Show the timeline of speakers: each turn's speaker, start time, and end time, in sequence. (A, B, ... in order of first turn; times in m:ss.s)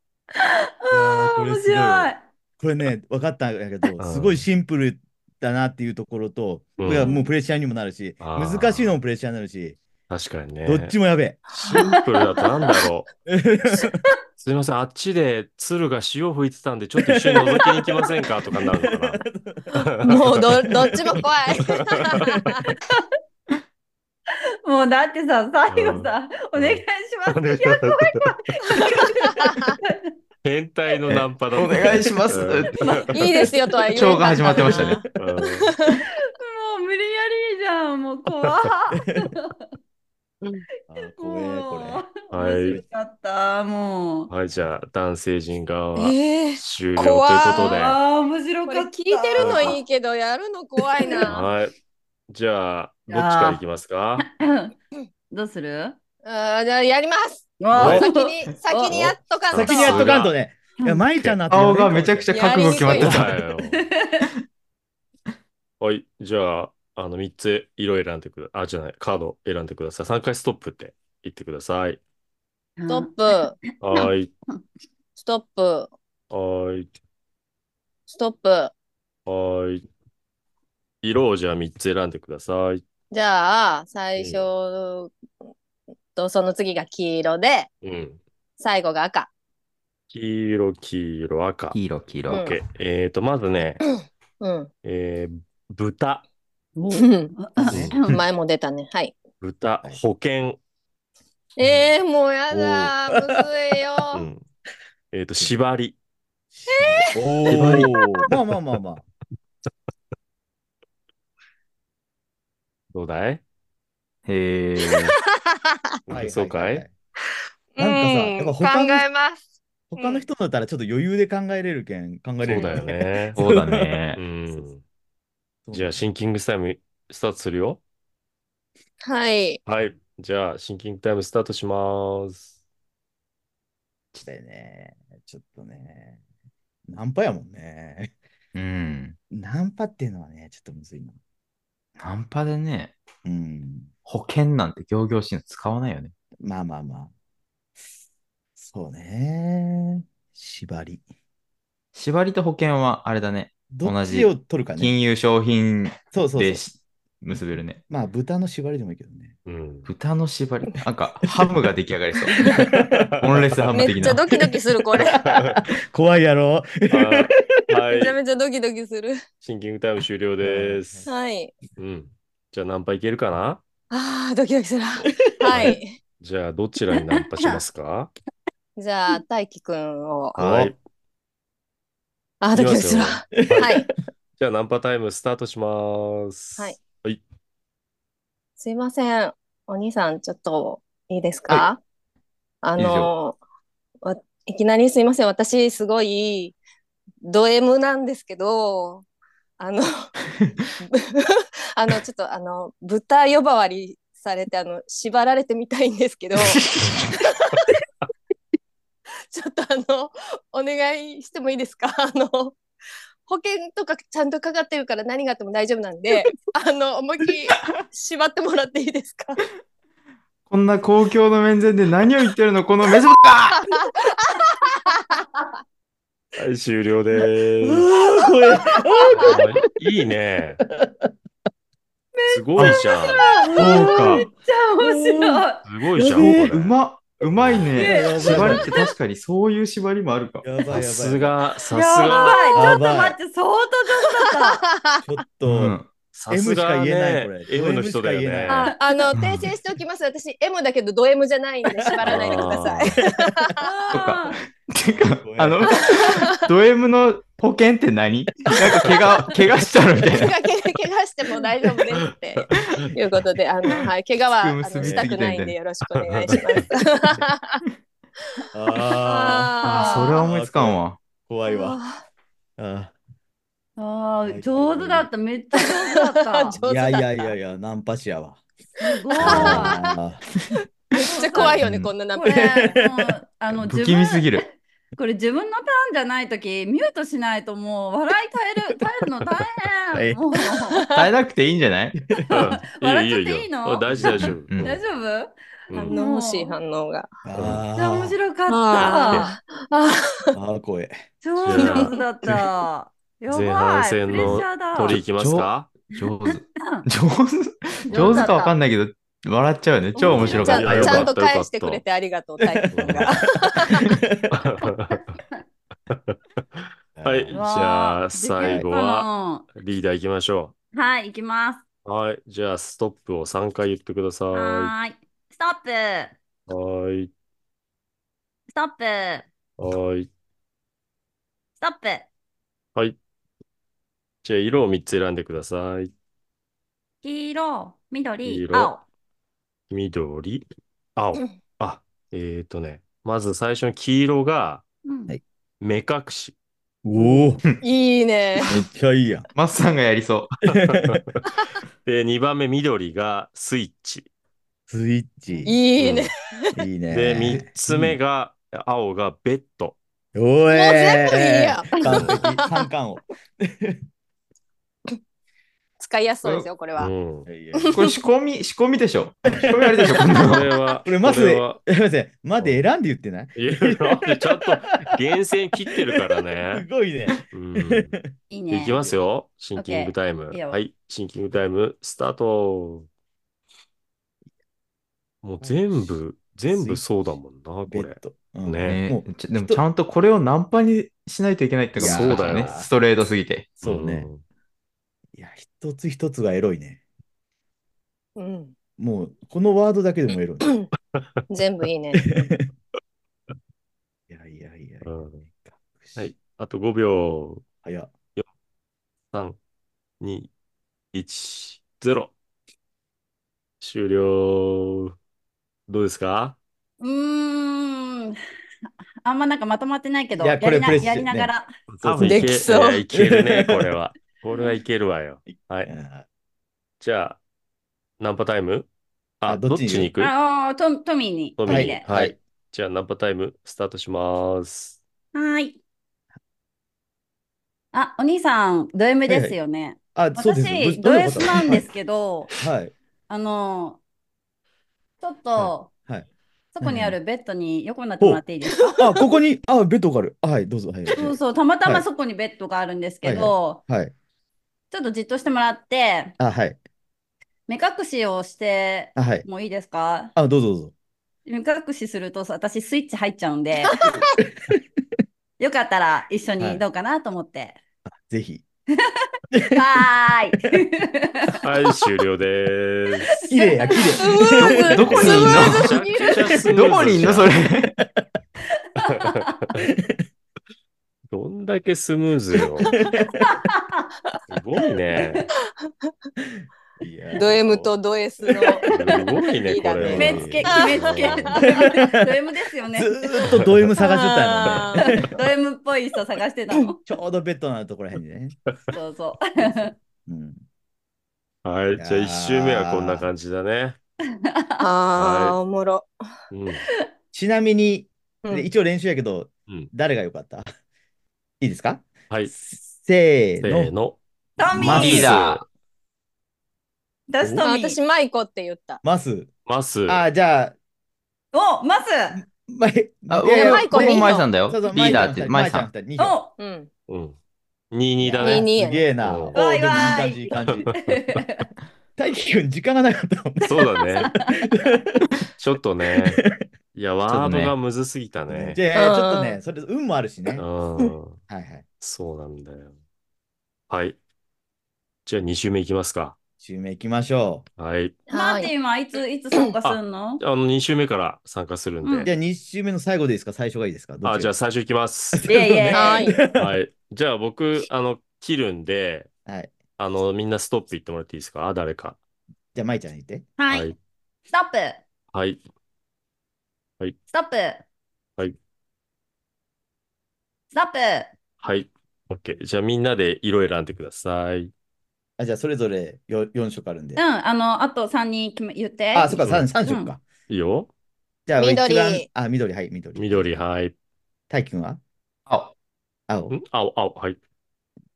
0:00.4-0:02.2 A
0:00.9-0:09.8 B
0:04.0-0:04.4 C
0:06.8-0:07.1 C
0:08.2-0:09.0 C
0:10.1-0:10.9 C
0:10.7-0:11.4 B
0:11.5-0:13.1 C
0:11.6-0:12.0 D
0:13.3-0:14.0 B
0:14.4-0:20.5 C
0:17.0-0:17.8 B
0:18.6-0:19.7 B
0:20.0-0:22.4 D
0:20.9-0:21.2 B
0:22.0-0:22.5 C
0:24.6-0:30.1 A
0:25.7-0:28.2 C
0:29.2-0:29.8 D
0:30.4-0:33.5 C
0:31.5-0:33.0 E
0:32.8-0:33.1 A
0:33.1-0:35.0 D
0:33.9-0:35.0 E
0:34.2-0:34.8 A
0:35.2-0:35.8 C
0:35.7-0:36.0 D
0:36.4-0:39.5 A
0:40.9-0:44.3 A
0:40.9-0:42.1 B
0:42.3-0:42.8 C
0:44.3-0:48.0 C
0:46.0-0:47.8 D
0:47.5-0:49.8 A
0:48.7-0:51.5 D
0:49.4-0:49.8 C
0:51.0-0:51.3 A
0:51.3-0:51.7 C
0:52.3-0:54.3 C
0:53.1-0:53.6 A
0:54.3-0:54.7 A
0:55.3-0:56.0 A
0:56.2-1:00.2 D
0:57.6-0:59.0 A
0:57.7-0:58.0 C
0:58.9-1:00.4 C
0:59.5-1:02.3 B
1:01.5-1:03.3 E
1:02.3-1:03.2 D
1:02.9-1:03.8 C
1:03.7-1:04.3 A
1:05.8-1:12.0 C
1:12.8-1:13.1 A
1:12.9-1:13.6 D
1:13.8-1:14.3 C
1:15.2-1:15.9 D
1:16.3-1:16.9 C
1:18.1-1:18.7 D
1:19.3-1:19.8 C
1:21.0-1:22.8 C
1:23.1-1:25.1 D
1:24.2-1:24.5 C
1:26.2-1:27.7 D
1:27.8-1:28.2 C
1:28.6-1:29.3 D
1:30.1-1:33.8 C
1:31.7-1:32.5 E
1:32.3-1:32.6 D
1:34.4-1:34.7 D
1:34.8-1:36.2 C
1:36.8-1:38.2 A
1:36.9-1:37.3 D
1:37.6-1:38.0 B
1:38.0-1:39.2 D
1:39.4-1:40.6 C
1:41.6-1:44.2 D
1:42.5-1:43.3 B
1:44.1-1:44.4 C
1:45.1-1:46.0 C
1:46.6-1:49.0 B
1:46.7-1:47.9 D
1:47.5-1:47.9 C
1:52.9-1:53.4 C
1:54.3-1:55.1 E
1:54.8-1:55.1 D
1:56.1-1:56.8 C
1:56.1-1:56.9 B
1:57.8-1:59.4 D
1:57.8-1:59.1 B
1:59.9-2:04.0 B
2:00.0-2:00.3 D
2:02.4-2:03.4 C
2:02.5-2:02.8 D
2:03.4-2:04.2 E
2:04.2-2:04.8 C
2:05.7-2:06.0 B
2:05.7-2:07.8 C
2:09.0-2:09.6 D
2:09.7-2:12.5 C
2:14.1-2:16.2 B
2:16.9-2:18.1 B
2:18.6-2:19.2 E
2:19.3-2:21.2 B
2:22.0-2:22.9 E
2:23.2-2:23.9 B
2:24.1-2:26.1 E
2:26.4-2:27.1 B
2:28.6-2:31.0 B
2:32.0-2:37.8 E
2:33.7-2:34.9 B
2:36.1-2:36.6 B
2:37.9-2:39.4 B
2:39.5-2:39.9 C
2:39.9-2:42.4 E
2:42.4-2:43.2 B
2:43.2-2:43.6 C
2:43.2-2:44.2 E
2:43.7-2:45.2 D
2:44.5-2:47.6 B
2:45.2-2:45.6 C
2:46.9-2:48.2 C
2:48.0-2:49.2 D
2:49.4-2:51.1 C
2:50.4-2:51.1 B
2:51.1-2:51.5 D
2:51.8-2:53.6 C
2:53.9-2:56.0 D
2:55.5-2:58.1 C
2:58.8-3:00.4 D
3:00.4-3:00.8 C
3:00.4-3:00.7 B
3:02.4-3:03.9 D
3:02.5-3:07.2 C
3:03.4-3:03.8 B
3:08.6-3:11.8 D
3:12.6-3:13.4 D
3:12.8-3:13.1 E
3:14.0-3:16.6 D
3:17.2-3:19.0 D
3:19.6-3:20.1 D
3:20.3-3:20.7 E
3:20.8-3:27.7 D
3:26.4-3:27.1 E
3:29.3-3:32.6 D
3:33.3-3:39.4 D
3:40.5-3:43.6 E
3:43.7-3:45.2 D
3:46.4-3:47.8 C
3:47.6-3:49.4 B
3:49.1-3:50.6 C
3:50.6-3:51.1 B
3:52.2-3:55.6 A
3:52.3-3:53.3 C
3:53.6-3:54.3 E
3:53.6-3:54.0 B
3:54.8-3:55.4 B
3:55.7-3:56.8 C
3:56.1-4:00.5 E
3:56.1-3:56.5 B
3:57.4-3:58.6 C
3:57.8-3:58.9 A
3:57.8-3:58.7 B
4:00.4-4:01.3 B
4:00.7-4:02.5 C
4:01.7-4:04.6 A
4:02.1-4:02.7 D
4:02.6-4:03.2 B
4:04.4-4:05.0 D
4:05.0-4:05.8 B
4:05.5-4:05.9 E
4:06.2-4:08.7 C
4:06.3-4:08.7 B
4:08.5-4:13.9 D
4:09.1-4:09.5 E
4:12.0-4:12.4 B
4:12.0-4:13.0 C
4:13.6-4:14.4 A
4:13.9-4:20.4 E
4:14.9-4:15.7 B
4:15.7-4:16.2 D
4:18.5-4:18.9 D
4:20.1-4:27.6 D
4:22.4-4:22.9 C
4:22.5-4:22.8 E
4:24.3-4:25.6 E
4:26.0-4:26.6 C
4:28.4-4:30.3 D
4:28.5-4:29.6 B
4:29.6-4:31.0 E
4:29.7-4:30.2 A
4:30.2-4:31.8 B
4:31.5-4:32.0 D
4:32.6-4:32.9 B
4:33.8-4:36.6 A
4:34.2-4:35.1 B
4:35.6-4:37.3 D
4:36.6-4:38.4 B
4:38.8-4:39.8 A
4:38.9-4:40.0 D
4:39.2-4:40.2 B
4:41.0-4:42.6 D
4:41.0-4:41.6 A
4:42.2-4:50.8 A
4:43.6-4:44.4 E
4:50.7-4:51.1 D
4:51.0-4:52.0 E
4:52.0-4:52.3 B
4:52.3-4:54.6 C
4:52.8-4:56.6 A
4:53.9-4:54.3 B
4:54.4-4:54.8 E
4:55.7-4:56.0 C
4:55.9-4:57.1 D
4:57.2-4:58.2 B
4:57.8-4:59.3 A
4:58.5-5:00.4 D
4:58.8-4:59.3 C
5:00.3-5:01.0 B
5:01.2-5:05.0 A
5:01.4-5:01.9 C
5:01.6-5:02.0 D
5:03.3-5:05.7 C
5:05.1-5:11.1 E
5:07.9-5:08.6 A
5:10.0-5:13.9 D
5:10.0-5:10.6 A
5:10.4-5:11.8 C
5:12.4-5:13.2 B
5:12.7-5:13.2 C
5:13.9-5:14.3 B
5:14.3-5:15.0 C
5:15.9-5:20.5 C
5:17.0-5:17.4 B
5:17.3-5:19.5 A
5:18.4-5:18.7 B
5:20.7-5:21.6 A
5:21.8-5:24.7 C
5:24.3-5:26.1 A
5:26.5-5:27.1 C
5:28.5-5:29.3 A
5:29.6-5:30.1 C
5:31.6-5:32.1 A
5:34.2-5:35.9 C
5:37.0-5:38.8 A
5:38.2-5:38.8 C
5:39.7-5:40.4 C
5:41.0-5:44.6 C
5:44.8-5:45.1 A
5:45.6-5:46.4 C
5:46.8-5:47.4 B
5:47.0-5:48.5 D
5:48.5-5:49.3 B
5:49.4-5:50.3 E
5:50.6-5:51.0 B
5:50.6-5:51.2 C
5:51.8-5:54.1 C
5:54.7-5:55.6 B
5:55.4-5:56.1 D
5:55.8-5:56.1 C
5:56.6-5:58.0 B
5:56.9-5:59.8 C
6:00.2-6:03.8 B
6:00.5-6:02.6 D
6:05.8-6:06.9 D
6:06.8-6:07.3 C
6:07.3-6:07.8 B
6:07.6-6:08.0 D
6:07.7-6:10.5 E
6:09.3-6:10.1 B
6:10.2-6:11.6 C
6:10.8-6:14.9 B
6:13.4-6:16.7 C
6:15.7-6:18.1 B
6:17.3-6:18.0 C
6:18.3-6:18.8 A
6:18.5-6:22.9 C
6:19.6-6:20.6 A
6:25.2-6:28.8 C
6:26.5-6:26.8 B
6:27.7-6:29.6 B
6:28.6-6:33.6 E
6:31.8-6:32.6 C
6:31.8-6:32.7 B
6:33.6-6:34.1 B
6:33.6-6:34.2 C
6:35.2-6:36.8 B
6:38.2-6:38.5 D
6:38.8-6:40.6 B
6:41.3-6:42.0 D
6:42.0-6:42.5 B
6:44.1-6:46.1 B
6:44.8-6:45.2 C
6:46.0-6:47.4 C
6:47.6-6:47.9 B
6:49.1-6:49.4 C
6:50.0-6:50.3 C
6:50.9-6:52.1 C
6:53.6-6:54.9 C
6:55.7-6:56.4 C
6:56.8-6:58.2 A
6:59.0-7:01.5 A
7:00.2-7:01.3 B
7:01.7-7:05.7 C
7:01.8-7:03.6 B
7:02.0-7:02.8 D
7:05.3-7:06.0 B
7:06.8-7:07.2 C
7:08.0-7:08.7 C
7:09.2-7:10.1 C
7:09.3-7:09.9 B
7:10.0-7:11.8 A
7:11.4-7:14.8 C
7:11.5-7:12.2 B
7:15.1-7:15.6 A
7:17.7-7:22.3 A
7:19.1-7:19.4 B
7:20.0-7:21.7 B
7:22.4-7:22.7 B
7:23.1-7:23.8 A
7:25.0-7:25.7 A
7:25.4-7:26.1 B
7:26.5-7:28.8 A
7:26.6-7:27.0 B
7:28.8-7:31.8 B
7:30.9-7:33.6 A
7:33.0-7:33.9 B
7:34.7-7:36.2 A
7:36.2-7:36.6 B
7:37.5-7:40.1 A
7:39.0-7:39.3 B
7:40.2-7:40.7 B
7:41.3-7:43.8 A
7:43.7-7:44.0 D
7:45.4-7:47.6 A
7:48.1-7:48.4 B
7:49.3-7:49.6 B
7:49.5-7:51.4 A
7:51.4-7:53.1 C
7:53.3-7:55.1 B
7:54.0-7:56.3 D
7:54.4-7:55.8 E
7:54.9-7:57.3 C
7:56.5-7:57.8 E
7:58.8-7:59.6 C
7:59.0-7:59.4 A
8:01.1-8:02.7 C
8:02.7-8:03.2 B
8:03.4-8:03.8 A
8:04.3-8:05.2 C
8:06.2-8:07.7 B
8:07.2-8:10.3 D
8:08.7-8:11.4 C
8:09.8-8:11.9 B
8:09.9-8:13.0 A
8:12.8-8:15.1 B
8:13.3-8:13.6 C
8:13.8-8:14.9 D
8:14.9-8:16.8 A
8:16.9-8:18.4 B
8:18.7-8:19.7 A
8:19.4-8:20.4 B
8:21.4-8:23.8 C
8:21.8-8:23.1 B
8:24.3-8:24.6 A
8:24.6-8:25.9 D
8:25.0-8:25.4 C
8:26.3-8:26.6 C
8:27.1-8:30.5 B
8:31.4-8:33.7 B
8:33.4-8:34.0 C
8:34.4-8:35.2 A
8:34.5-8:35.2 B
8:34.6-8:35.4 E
8:34.7-8:35.4 C
8:37.1-8:37.8 A
8:37.2-8:37.5 B
8:37.4-8:38.8 D
8:38.8-8:39.3 B
8:39.5-8:40.0 C
8:39.9-8:40.6 B
8:41.3-8:42.2 A
8:42.1-8:46.2 B
8:43.1-8:45.7 E
8:43.4-8:44.3 D
8:46.0-8:46.3 A
8:46.4-8:46.7 D
8:46.9-8:47.2 C
8:47.7-8:48.5 C
8:48.0-8:50.7 B
8:48.2-8:48.9 D
8:49.0-8:49.4 C
8:49.4-8:51.5 A
8:50.4-8:51.2 C
8:52.0-8:53.7 B
8:53.4-8:54.1 C
8:54.0-8:54.3 A
8:54.3-8:55.1 B
8:55.4-8:56.2 C
8:56.0-8:56.4 B
8:56.8-8:58.6 C
8:57.1-8:57.5 E
8:58.3-9:00.5 B
8:58.8-8:59.4 D
9:00.3-9:01.2 C
9:01.3-9:01.6 B
9:01.8-9:02.7 C
9:03.7-9:04.0 C
9:05.1-9:06.2 C
9:06.4-9:07.5 B
9:07.6-9:08.0 C
9:08.1-9:10.2 A
9:08.1-9:08.5 D
9:09.6-9:12.1 C
9:11.8-9:12.1 A
9:12.0-9:14.3 B
9:14.0-9:15.2 C
9:15.1-9:16.6 B
9:15.3-9:16.1 A
9:15.7-9:16.2 D
9:16.4-9:19.1 C
9:19.3-9:19.5 B
9:19.8-9:22.0 C
9:22.6-9:23.3 B
9:23.4-9:23.7 A
9:23.5-9:23.8 C
9:24.3-9:24.8 A
9:25.1-9:25.4 C
9:27.1-9:27.6 A
9:30.5-9:31.1 A
9:31.4-9:34.5 C
9:35.2-9:37.0 B
9:37.0-9:40.0 A
9:38.9-9:40.0 B
9:39.2-9:39.5 C
9:40.3-9:40.7 C
9:41.3-9:43.4 B
9:41.4-9:42.1 D
9:43.0-9:43.7 C
9:44.3-9:44.8 B
9:45.3-9:45.5 E
9:46.1-9:46.4 B
9:46.3-9:47.2 C